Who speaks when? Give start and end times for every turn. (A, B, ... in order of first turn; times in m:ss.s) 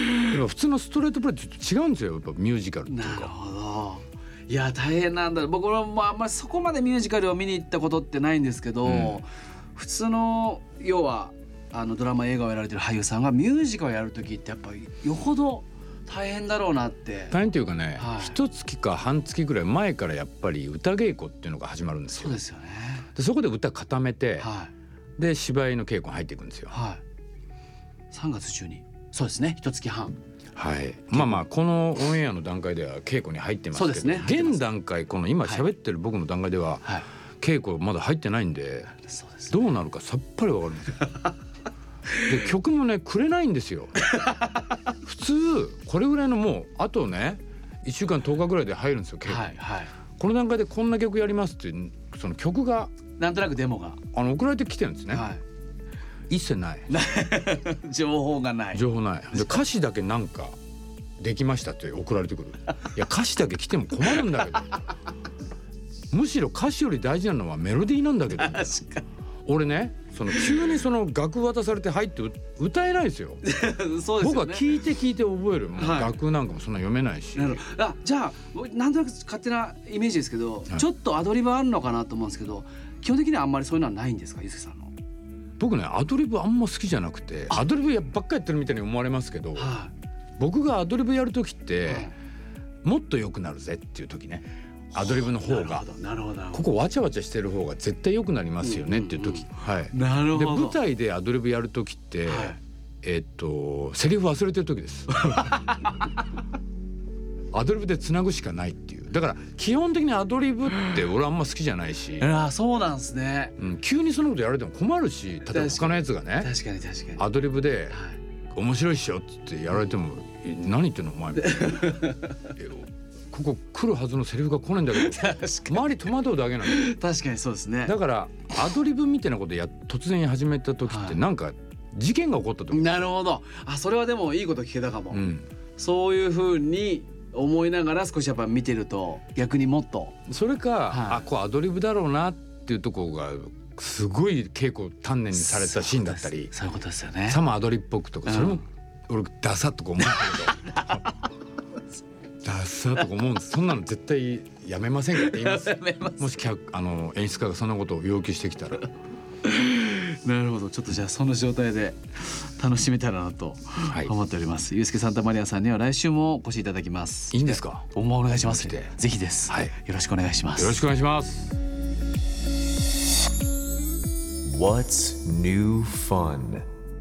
0:00.2-0:03.3 A
0:02.9-0:17.4 B
0:08.8-0:09.2 A
0:17.3-0:22.4 A
0:18.0-0:18.4 B
0:22.1-0:23.1 B
0:23.1-0:24.5 A
0:24.4-0:24.7 B
0:25.2-0:26.7 A
0:26.7-0:27.0 B
0:28.1-0:30.2 B
0:30.5-0:38.9 A
0:31.1-0:31.4 B
0:33.7-0:34.6 B
0:39.0-0:39.5 B
0:39.5-0:41.0 A
0:42.2-0:44.1 A
0:44.1-0:44.4 B
0:45.0-0:49.6 A
0:49.3-0:49.9 B
0:50.2-0:52.9 A
0:53.1-0:54.0 B
0:54.1-0:55.3 A
0:55.1-0:55.4 B
0:56.3-0:57.0 A
0:56.9-0:59.6 B
0:58.7-1:00.6 A
1:01.2-1:04.8 A
1:06.1-1:08.8 A
1:08.4-1:09.0 B
1:09.4-1:13.4 A
1:13.4-1:14.7 B
1:14.2-1:17.6 A
1:15.8-1:16.2 B
1:17.4-1:24.9 B
1:25.6-1:29.7 A
1:29.6-1:29.9 B
1:30.4-1:32.1 A
1:31.9-1:32.1 B
1:32.8-1:35.9 A
1:35.0-1:36.6 B
1:36.5-1:45.6 A
1:38.6-1:40.8 B
1:42.3-1:42.6 B
1:45.1-1:45.9 B
1:47.5-1:52.3 A
1:52.2-1:53.6 B
1:53.6-1:56.5 A
1:55.5-1:57.2 B
1:57.2-1:58.0 A
1:57.9-1:58.2 B
1:58.5-2:07.0 A
2:01.4-2:02.5 B
2:04.9-2:05.9 B
2:06.6-2:08.0 B
2:07.8-2:13.1 A
2:10.9-2:11.2 B
2:12.7-2:20.2 B
2:15.1-2:15.5 A
2:20.2-2:26.5 A
2:20.9-2:21.2 B
2:25.3-2:27.4 B
2:27.3-2:31.0 A
2:28.2-2:28.6 B
2:30.0-2:31.1 B
2:32.4-2:38.9 A
2:35.1-2:36.3 B
2:39.4-2:50.8 B
2:43.8-2:44.1 A
2:47.3-2:48.9 A
2:50.5-2:51.5 A
2:54.4-2:56.6 C